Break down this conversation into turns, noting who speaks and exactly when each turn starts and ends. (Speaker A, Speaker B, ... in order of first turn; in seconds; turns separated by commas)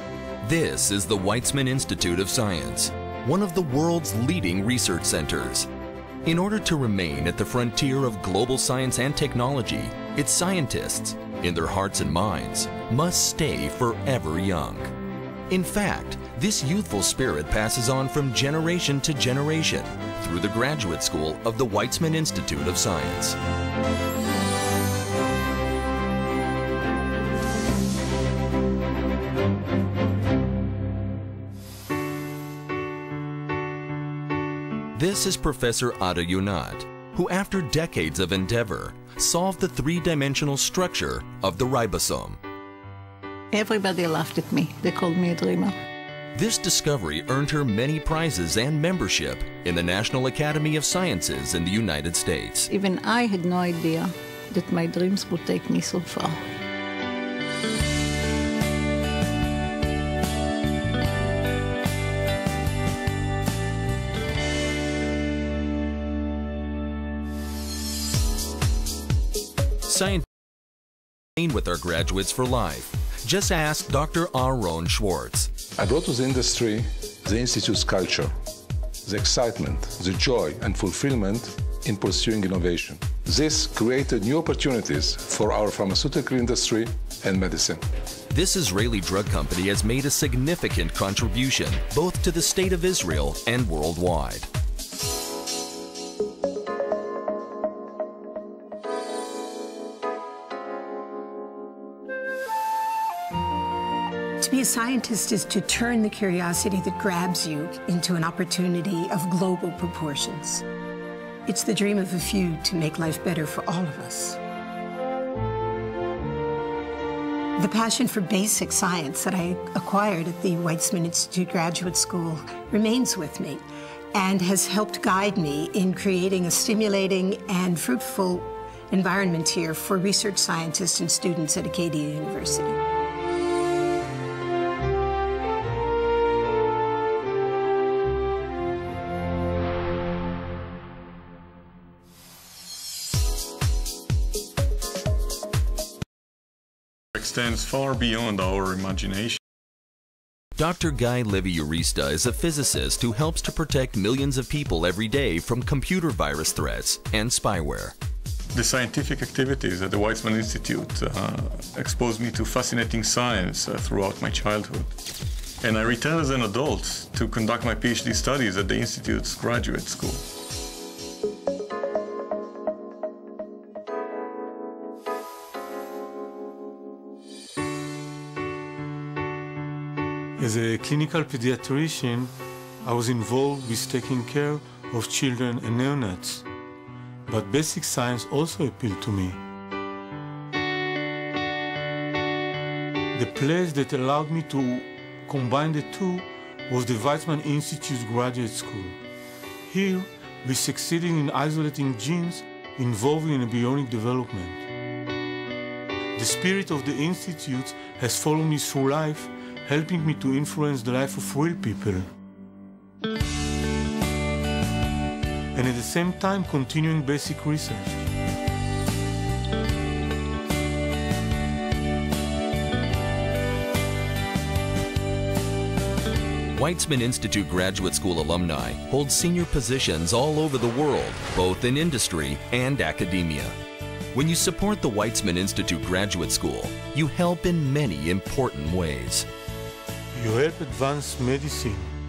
Speaker A: 0.4-5.7, Speaker A: 6.2-14.9, Speaker A: 15.5-23.4, Speaker A: 34.9-42.4, Speaker B: 43.5-45.8, Speaker A: 46.3-52.7, Speaker B: 52.7-56.4, Speaker A: 69.8-70.2, Speaker A: 71.4-75.5, Speaker C: 75.8-78.3, Speaker C: 79.0-87.8, Speaker A: 88.3-94.5, Speaker D: 104.4-110.6, Speaker D: 111.5-114.4, Speaker D: 117.5-123.6, Speaker D: 124.1-132.8, Speaker E: 147.1-149.4, Speaker A: 150.6-157.9, Speaker E: 158.5-164.9, Speaker E: 165.6-170.2, Speaker F: 180.4-182.3, Speaker F: 182.8-186.4, Speaker F: 187.3-189.4, Speaker F: 193.1-199.0, Speaker F: 199.7-204.6, Speaker F: 206.2-212.1, Speaker F: 215.5-218.1, Speaker A: 226.5-233.6, Speaker A: 234.1-239.3, Speaker F: 240.1-241.9